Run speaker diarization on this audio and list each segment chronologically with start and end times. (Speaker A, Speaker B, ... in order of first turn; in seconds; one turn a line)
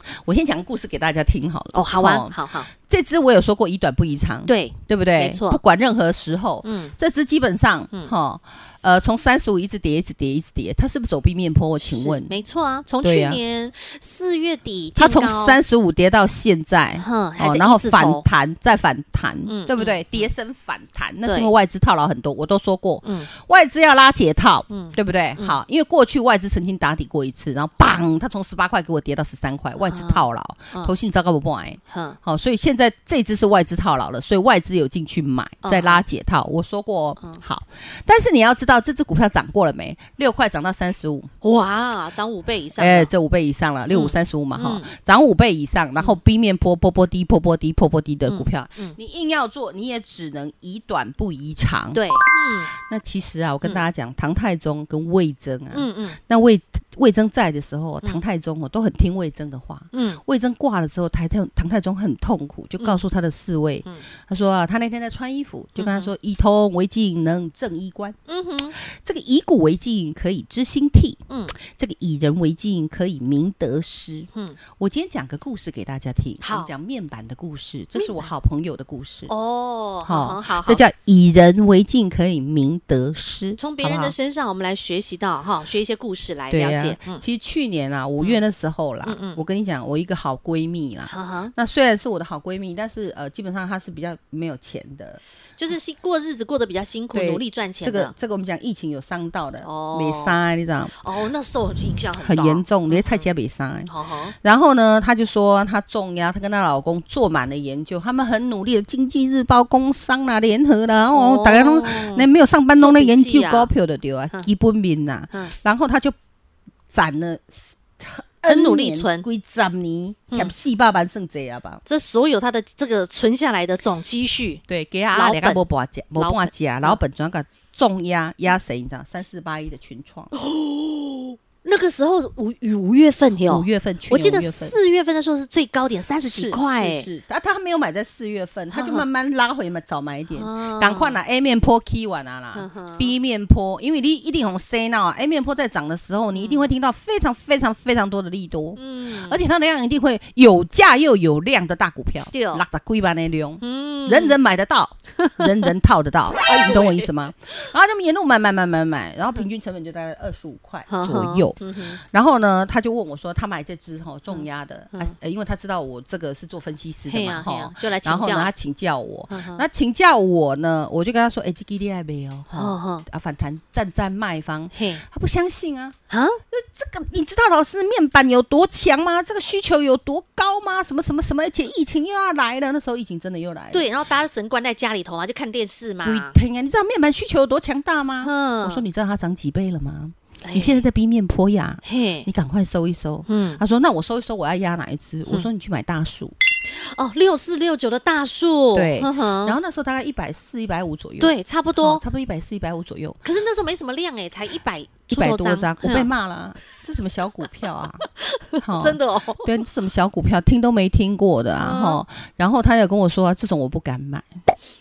Speaker A: 0.1-12.3
Speaker B: 1.7-2.7
Speaker B: 4.5-5.6
Speaker B: 6.6-6.9
Speaker B: 11.8-15.6
Speaker A: 13.0-13.4
Speaker A: 14.9-41.3
Speaker B: 17.0-18.2
Speaker B: 19.5-20.3
Speaker B: 21.2-21.5
Speaker B: 23.0-23.3
Speaker B: 24.7-25.6
Speaker B: 29.9-30.9
Speaker B: 31.9-32.2
Speaker B: 35.6-36.0
Speaker B: 41.4-43.1
Speaker A: 42.8-52.1
Speaker B: 43.9-44.9
Speaker B: 48.3-49.0
Speaker B: 51.9-52.7
Speaker A: 52.7-68.2
Speaker B: 55.7-56.2
Speaker B: 59.9-60.2
Speaker B: 65.8-66.1
Speaker B: 68.3-68.8
Speaker A: 68.8-79.3
Speaker B: 71.3-71.5
Speaker B: 74.3-74.6
Speaker B: 76.4-76.7
Speaker B: 78.0-78.3
Speaker B: 79.3-80.8
Speaker A: 80.0-84.1
Speaker B: 83.6-87.2
Speaker A: 86.5-95.2
Speaker B: 89.0-89.4
Speaker B: 91.1-91.5
Speaker B: 95.6-98.1
Speaker A: 97.1-100.9
Speaker B: 99.6-100.4
Speaker B: 101.0-103.3
Speaker A: 102.2-116.2
Speaker B: 103.9-104.3
Speaker B: 111.1-113.7
Speaker A: 116.9-121.8
Speaker B: 118.5-119.2
Speaker B: 121.8-125.6
Speaker A: 124.7-130.3
Speaker B: 126.2-127.0
Speaker B: 130.3-137.1
Speaker A: 133.4-134.8
Speaker A: 136.2-175.9
Speaker B: 138.7-139.1
Speaker B: 140.3-141.2
Speaker B: 142.5-143.1
Speaker B: 146.3-146.7
Speaker B: 148.8-149.4
Speaker B: 152.3-152.6
Speaker B: 153.6-154.4
Speaker B: 155.2-155.7
Speaker B: 156.5-157.1
Speaker B: 160.9-162.0
Speaker B: 164.3-165.1
Speaker B: 167.1-168.5
Speaker B: 169.3-169.6
Speaker B: 172.5-173.1
Speaker B: 174.7-175.0
Speaker B: 176.1-176.4
Speaker A: 176.5-183.9
Speaker B: 183.7-186.3
Speaker A: 186.0-196.3
Speaker B: 188.2-188.8
Speaker B: 190.4-190.8
Speaker B: 191.8-192.3
Speaker B: 193.3-193.6
Speaker B: 196.7-199.6
Speaker A: 198.7-203.2
Speaker B: 201.2-202.0
Speaker B: 203.2-206.1
Speaker A: 205.1-208.1
Speaker B: 208.2-209.5
Speaker A: 208.6-214.3
Speaker B: 211.6-212.0